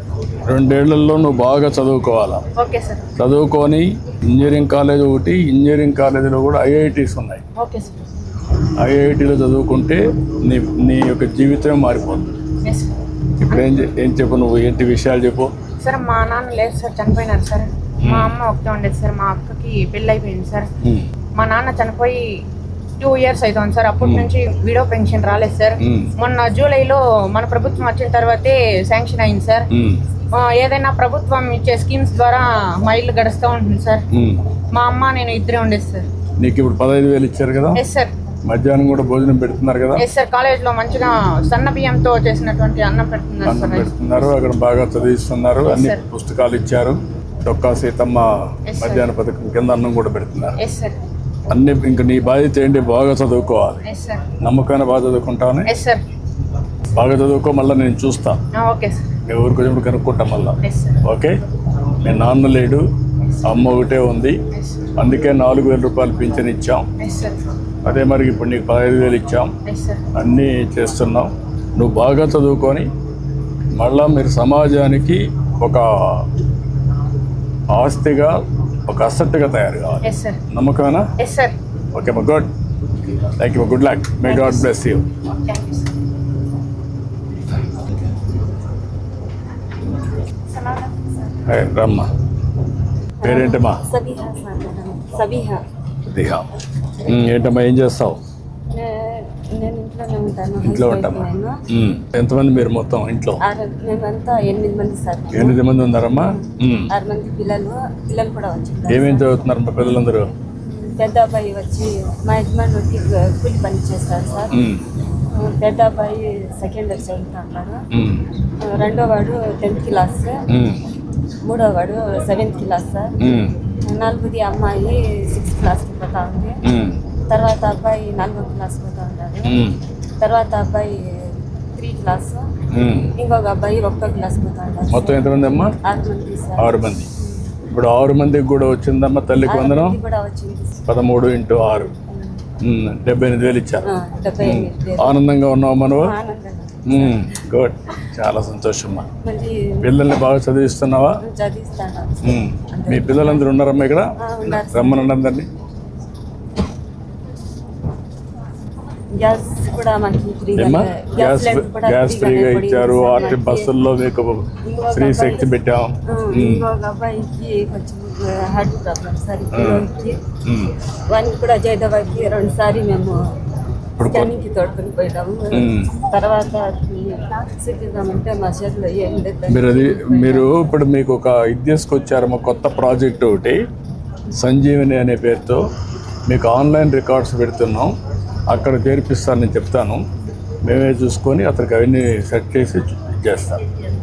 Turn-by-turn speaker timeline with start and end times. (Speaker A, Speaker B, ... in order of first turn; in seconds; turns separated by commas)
Speaker A: 0.5-2.4, Speaker B: 2.6-3.0, Speaker A: 3.1-7.4, Speaker B: 7.5-8.0, Speaker A: 8.8-12.4, Speaker B: 12.6-12.9, Speaker A: 13.4-15.5, Speaker B: 15.8-20.7, Speaker A: 18.0-18.3, Speaker A: 20.8-21.1, Speaker B: 21.4-22.4, Speaker B: 23.0-29.7, Speaker A: 24.0-24.3, Speaker A: 25.8-26.1, Speaker A: 29.7-30.0, Speaker B: 30.3-34.0, Speaker A: 34.1-34.5, Speaker B: 34.7-36.1, Speaker A: 36.4-37.8, Speaker B: 37.7-38.1, Speaker A: 38.4-40.0, Speaker B: 40.0-43.9, Speaker A: 43.4-50.6, Speaker B: 45.7-46.0, Speaker B: 48.7-49.1, Speaker B: 50.6-51.0, Speaker A: 51.5-53.8, Speaker B: 53.9-54.2, Speaker A: 54.4-55.7, Speaker B: 55.7-56.0, Speaker A: 56.9-58.4, Speaker B: 58.5-59.1, Speaker A: 59.2-61.4, Speaker B: 60.6-61.0, Speaker A: 62.0-62.9, Speaker B: 63.2-63.6, Speaker A: 63.4-64.4, Speaker B: 64.5-64.9, Speaker A: 65.0-66.9, Speaker B: 67.0-67.4, Speaker A: 67.8-69.5, Speaker B: 69.7-70.0, Speaker A: 70.1-72.9, Speaker A: 73.7-76.3, Speaker A: 77.7-81.1, Speaker B: 80.0-80.4, Speaker B: 81.2-81.5, Speaker A: 81.9-82.5, Speaker A: 83.3-85.1, Speaker B: 84.2-84.7, Speaker B: 85.4-85.9, Speaker B: 90.5-91.2, Speaker A: 91.4-92.1, Speaker C: 93.2-95.6, Speaker A: 93.2-93.8, Speaker A: 96.0-96.5, Speaker A: 97.0-98.2, Speaker C: 98.7-101.5, Speaker A: 100.6-103.4, Speaker C: 103.4-105.6, Speaker A: 105.3-106.9, Speaker C: 106.2-109.3, Speaker A: 108.9-110.3, Speaker C: 110.7-114.6, Speaker A: 114.5-114.8, Speaker C: 115.3-117.8, Speaker A: 117.9-118.2, Speaker C: 118.7-120.4, Speaker A: 120.5-120.8, Speaker C: 121.4-123.2, Speaker A: 123.2-123.5, Speaker C: 123.7-126.6, Speaker A: 126.6-127.0, Speaker C: 127.3-129.7, Speaker A: 129.4-129.8, Speaker C: 130.2-132.5, Speaker A: 132.7-133.1, Speaker C: 133.2-136.7, Speaker A: 134.9-135.7, Speaker A: 136.6-137.1, Speaker A: 137.7-140.0, Speaker C: 139.4-140.8, Speaker A: 140.9-141.9, Speaker C: 142.1-142.4, Speaker A: 142.6-146.1, Speaker C: 143.8-145.2, Speaker C: 145.9-147.3, Speaker A: 146.8-149.1, Speaker C: 149.2-149.9, Speaker A: 149.8-151.2, Speaker C: 151.2-153.4, Speaker A: 152.2-154.1, Speaker C: 154.2-155.1, Speaker A: 154.7-155.5, Speaker C: 159.2-163.7, Speaker A: 160.6-166.7, Speaker C: 164.6-165.5, Speaker C: 166.1-170.2, Speaker A: 169.5-169.9, Speaker A: 170.4-170.7, Speaker C: 171.1-173.2, Speaker A: 174.0-174.3, Speaker C: 174.0-180.6, Speaker A: 175.5-175.9, Speaker A: 179.5-183.6, Speaker A: 184.3-185.6, Speaker A: 186.3-187.9, Speaker A: 188.5-190.0, Speaker A: 190.6-193.6